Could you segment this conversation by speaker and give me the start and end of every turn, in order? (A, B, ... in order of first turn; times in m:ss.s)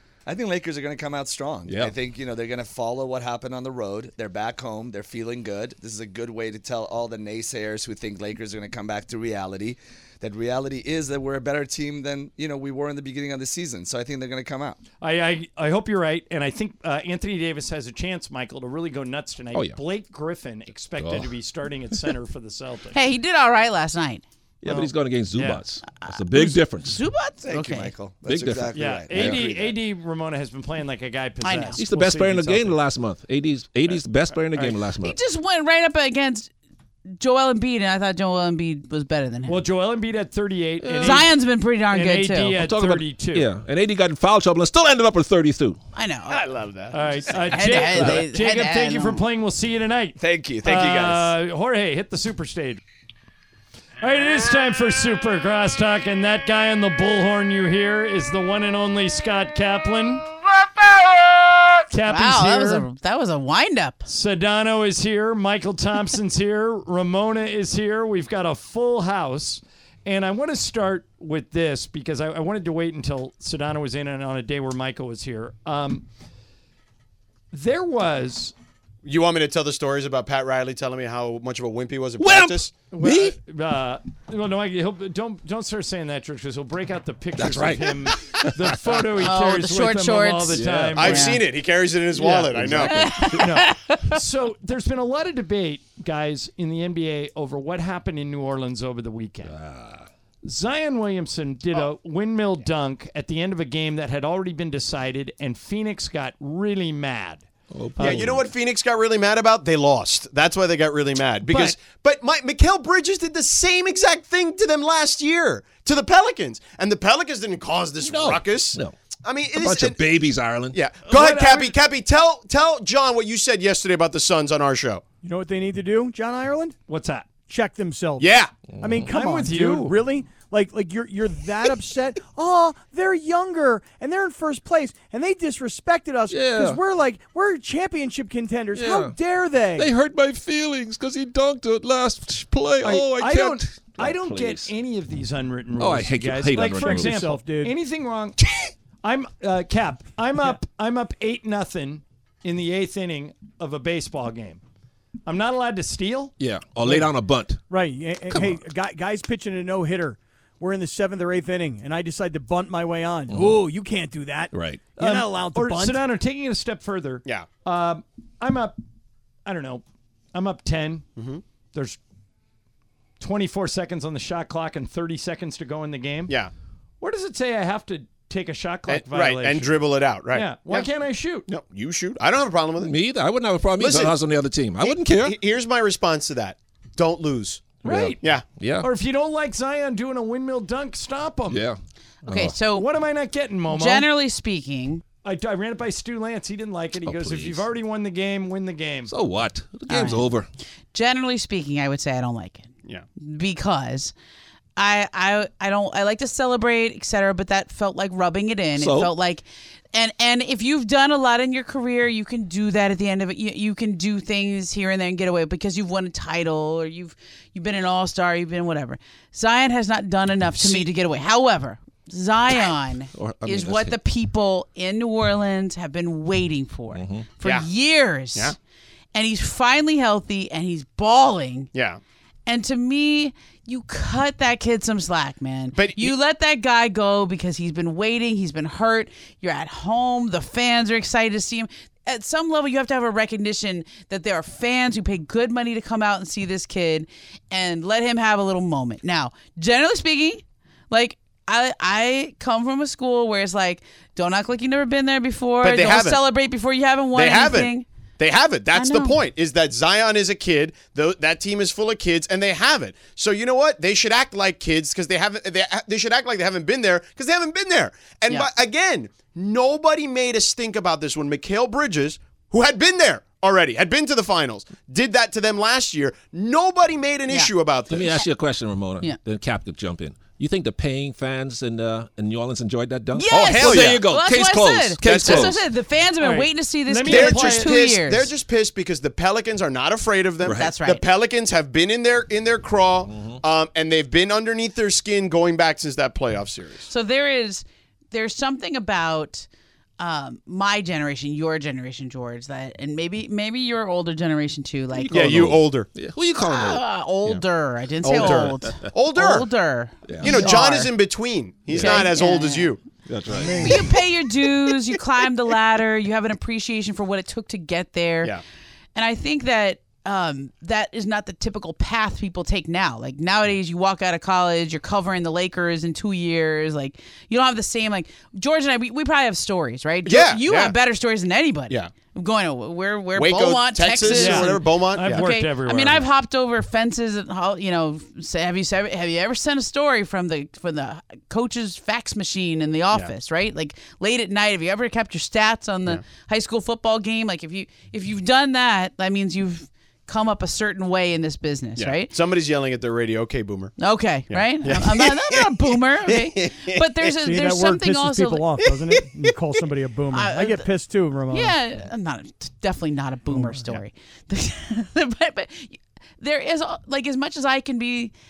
0:00.3-0:14.8 A
0:01.7-0:01.9 B
0:15.0-0:23.0 C
0:21.0-0:21.3 B
0:22.9-0:24.2 D
0:24.6-0:27.0 B
0:24.6-0:25.6 C
0:25.9-0:27.9 D
0:27.4-0:29.8 A
0:28.2-0:29.5 B
0:28.7-0:32.8 C
0:31.4-0:31.8 D
0:31.8-0:35.2 B
0:34.5-0:34.8 C
0:35.0-0:36.5 D
0:37.2-0:39.6 D
0:39.5-0:41.3 C
0:40.8-0:41.3 B
0:41.0-0:42.6 D
0:41.9-0:43.5 C
0:42.5-0:45.8 B
0:46.0-0:46.4 D
0:46.3-0:48.3 A
0:46.9-0:52.8 C
0:47.5-0:49.2 D
0:50.2-0:51.4 A
0:54.0-1:00.2 C
1:01.9-1:02.8 C
1:02.1-1:04.0 D
1:04.1-1:16.0 C
1:17.5-1:18.5 C
1:19.0-1:22.7 E
1:22.2-1:23.4 B
1:22.9-1:31.4 C
1:27.4-1:29.0 B
1:29.2-1:31.5 D
1:30.5-1:31.1 B
1:31.0-1:33.0 E
1:32.2-1:39.5 C
1:32.8-1:34.2 D
1:39.5-1:40.1 B
1:40.4-1:47.4 C
1:47.7-1:48.5 B
1:48.0-1:48.3 C
1:48.0-2:00.0 E
1:51.5-1:51.8 C
1:58.0-1:59.0 B
1:59.5-2:00.8 B
2:00.7-2:05.0 E
2:01.1-2:01.8 C
2:05.2-2:06.8 F
2:06.9-2:07.3 C
2:07.5-2:19.9 F
2:08.2-2:08.6 E
2:08.7-2:09.1 B
2:09.1-2:10.0 C
2:16.3-2:16.8 B
2:18.7-2:19.2 B
2:19.8-2:24.7 B
2:22.8-2:28.4 C
2:25.8-2:27.3 B
2:26.8-2:27.8 F
2:29.0-2:34.6 C
2:35.3-2:36.3 C
2:36.4-2:37.6 B
2:37.7-2:46.1 F
2:38.3-2:38.6 B
2:43.3-2:43.7 B
2:44.5-2:44.9 B
2:45.0-2:48.8 C
2:49.4-2:51.1 C
2:51.2-2:51.4 E
2:51.7-2:52.0 C
2:53.2-2:56.3 C
2:57.0-2:59.8 C
2:58.9-3:00.9 E
3:00.3-3:01.5 C
3:01.5-3:03.0 E
3:02.8-3:05.4 B
3:03.8-3:04.2 E
3:04.8-3:08.5 E
3:07.8-3:08.9 B
3:07.8-3:08.2 C
3:08.8-3:11.6 C
3:11.5-3:12.6 B
3:12.3-3:12.9 D
3:12.7-3:14.1 C
3:13.7-3:15.0 D
3:15.2-3:19.1 C
3:17.0-3:17.6 B
3:19.1-3:20.5 B
3:19.9-3:20.3 D
3:20.9-3:24.1 D
3:24.8-3:48.6 D
3:28.8-3:29.1 B
3:43.1-3:44.0 B
3:46.9-3:47.3 B
3:47.4-3:47.7 E
3:49.1-3:51.7 D
3:51.7-3:52.0 E
3:52.5-4:17.9 D
3:55.7-3:56.2 E
4:15.6-4:16.2 E
4:17.2-4:38.2 E
4:18.7-4:19.2 D
4:37.9-4:45.7 B
4:43.2-4:48.3 D
4:43.3-4:44.1 E
4:45.0-4:45.5 E
4:46.2-4:47.7 C
4:47.1-4:56.9 E
4:50.4-4:50.8 B
4:50.5-4:51.1 D
4:53.1-4:53.4 B
4:56.9-4:59.5 D
5:00.0-5:05.4 D
5:04.9-5:06.9 B
5:05.1-5:05.9 E
5:06.4-5:11.0 D
5:08.0-5:09.5 E
5:08.2-5:08.9 B
5:10.0-5:10.6 B
5:10.2-5:12.8 E
5:11.7-5:12.8 D
5:11.7-5:12.1 B
5:13.0-5:13.9 B
5:13.6-5:18.4 D
5:19.0-5:52.1 D
5:30.0-5:30.8 E
5:33.2-5:35.3 E
5:34.1-5:36.1 C
5:51.8-5:53.8 E
5:53.8-5:58.6 D
5:54.3-5:57.1 E
5:57.2-6:01.6 F
6:00.1-6:00.7 D
6:01.3-6:08.1 D
6:03.3-6:03.7 F